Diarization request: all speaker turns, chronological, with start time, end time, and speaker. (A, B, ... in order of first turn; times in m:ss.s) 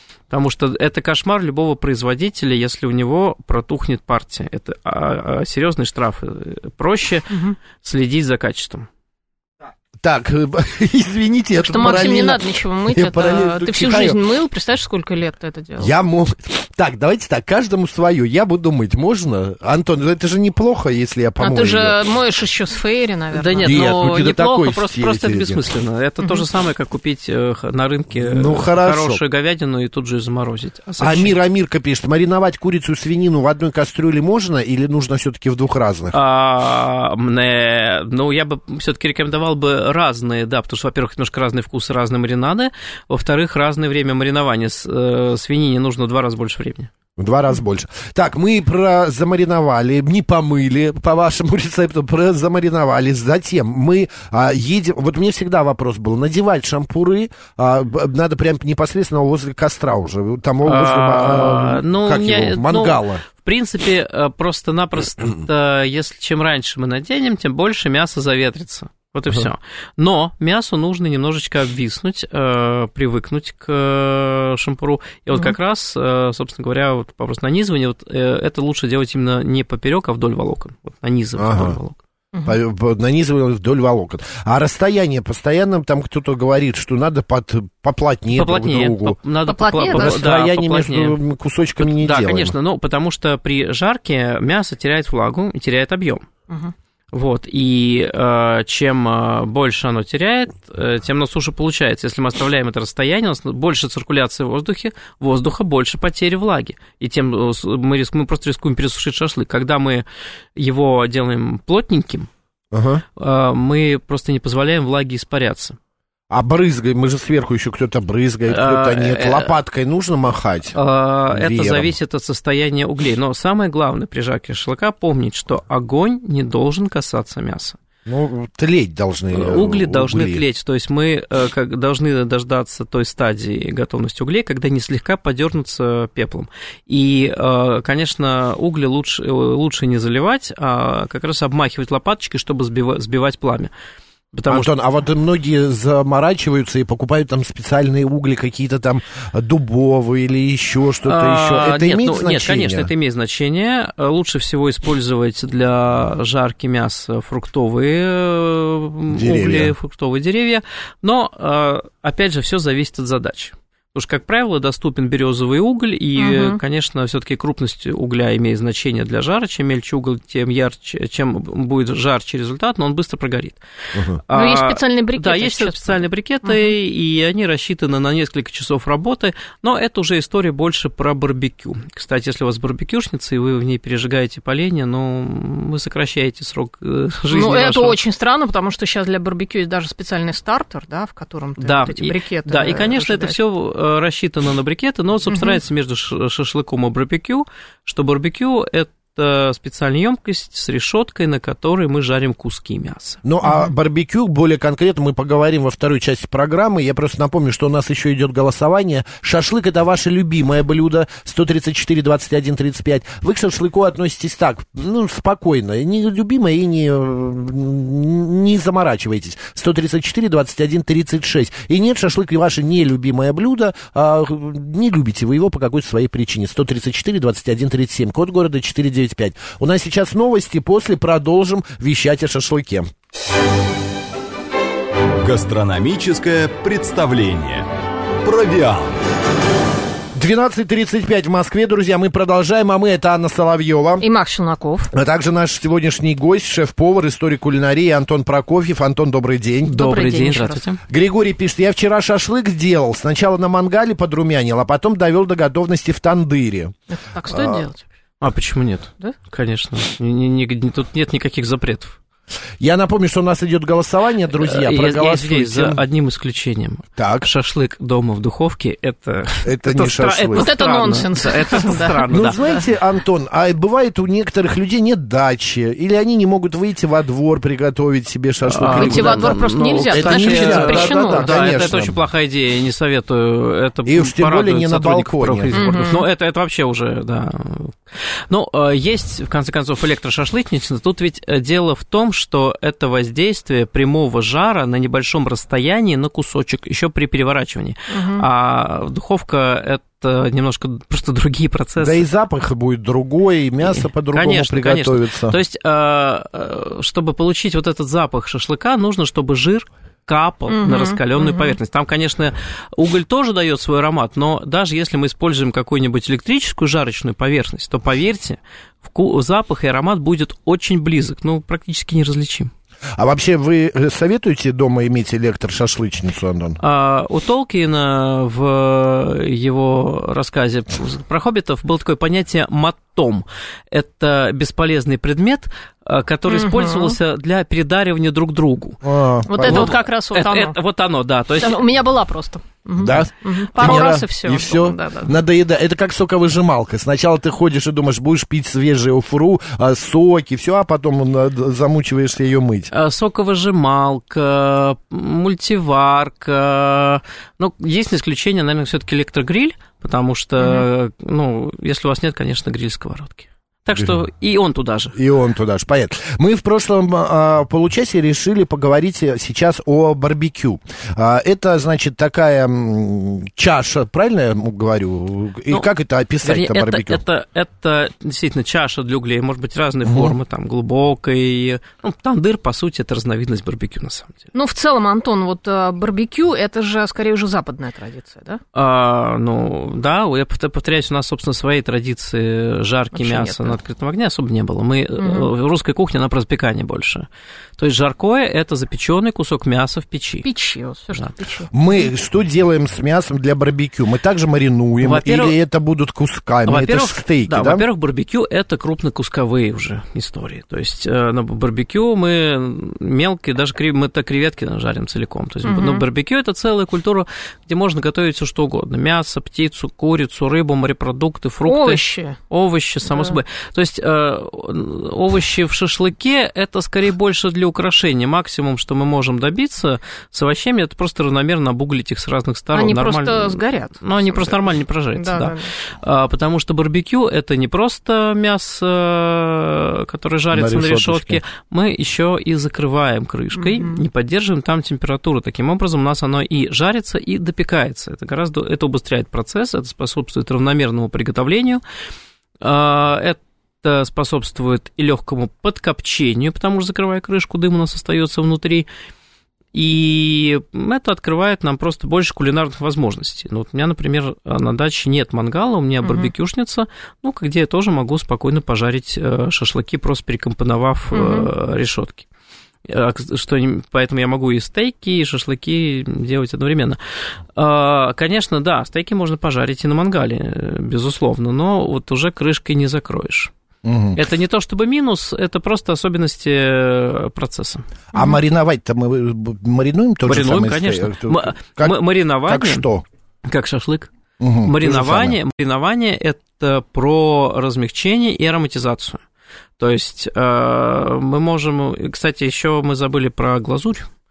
0:00.3-0:08.9 A
0:07.3-0:07.6 B
0:10.0-0:14.2 C
0:11.6-0:15.9 B
0:15.8-0:22.0 C
0:21.4-0:23.8 B
0:23.3-0:31.4 A
0:23.6-0:25.6 C
0:28.1-0:29.2 C
0:31.0-0:36.2 C
0:36.1-0:46.9 A
0:47.2-1:03.2 C
1:00.6-1:22.0 A
1:21.4-1:21.8 C
1:22.3-1:22.6 B
1:22.5-1:29.2 C
1:28.3-1:31.2 A
1:29.5-1:30.2 B
1:29.9-1:32.6 C
1:31.8-1:36.3 A
1:36.5-1:36.7 B
1:37.1-1:50.0 A
1:50.6-1:52.3 A
1:52.7-1:53.0 C
1:53.2-1:55.8 A
1:56.3-2:00.8 C
1:58.5-1:59.6 A
2:00.8-2:07.8 A
2:01.3-2:01.9 C
2:08.1-2:10.4 C
2:09.3-2:23.7 A
2:24.3-2:24.7 A
2:24.5-2:32.9 C
2:31.0-2:53.6 A
2:39.1-2:39.7 C
2:46.2-2:46.6 B
2:53.9-2:54.2 C
2:54.2-3:08.0 A
2:54.3-2:56.8 B
3:07.3-3:13.4 B
3:11.6-3:23.2 A
3:15.3-3:15.6 B
3:23.2-3:52.9 C
3:23.4-3:23.7 B
3:55.2-3:57.7 D
3:58.2-3:58.9 D
4:00.2-4:04.0 C
4:04.0-4:04.9 B
4:04.9-4:09.8 C
4:09.6-4:10.8 A
4:09.7-4:10.7 B
4:10.9-4:16.8 C
4:16.9-4:17.8 B
4:17.3-4:17.7 C
4:18.2-4:22.0 A
4:22.6-4:25.8 C
4:24.4-4:32.4 A
4:27.0-4:27.3 C
4:29.4-4:30.5 C
4:30.3-4:32.6 B
4:32.1-4:42.0 C
4:38.5-5:02.0 A
4:38.6-4:41.6 B
4:43.9-4:45.6 C
4:45.5-4:46.0 B
4:57.9-4:58.3 B
5:01.8-5:05.4 C
5:03.6-5:22.5 A
5:10.5-5:11.6 B
5:23.0-5:26.6 C
5:26.6-5:38.8 A
5:36.3-5:37.0 B
5:38.8-5:39.7 C
5:39.3-5:40.6 B
5:39.4-5:41.6 A
5:41.4-5:45.1 B
5:42.8-5:52.7 C
5:52.7-6:05.0 A
6:00.4-6:00.7 B
6:03.8-6:04.0 C
6:04.9-6:17.0 C
6:16.2-6:24.3 A
6:19.8-6:20.1 C
6:24.3-6:28.4 B
6:28.6-6:37.1 A
6:33.0-6:33.6 B
6:35.0-6:35.3 B
6:37.6-6:40.3 A
6:40.2-6:41.9 B
6:41.5-6:47.6 C
6:44.8-6:45.4 A
6:46.5-7:31.6 A
6:55.4-6:55.8 B
7:01.5-7:02.2 B
7:02.9-7:03.2 B
7:12.5-7:14.4 B
7:15.0-7:15.5 B
7:20.3-7:21.2 C
7:23.4-7:23.8 B
7:32.4-7:38.7 A
7:39.5-7:52.0 A
7:45.8-7:46.1 B
7:50.9-7:51.3 B
7:52.7-7:56.8 A
7:57.4-8:03.3 A
8:03.6-8:04.0 C
8:04.0-8:07.7 A
8:07.9-8:12.8 C
8:07.9-8:08.2 B
8:10.0-8:12.6 A
8:13.3-8:13.9 A
8:14.2-8:15.2 C
8:14.4-8:19.0 A
8:19.6-8:23.9 A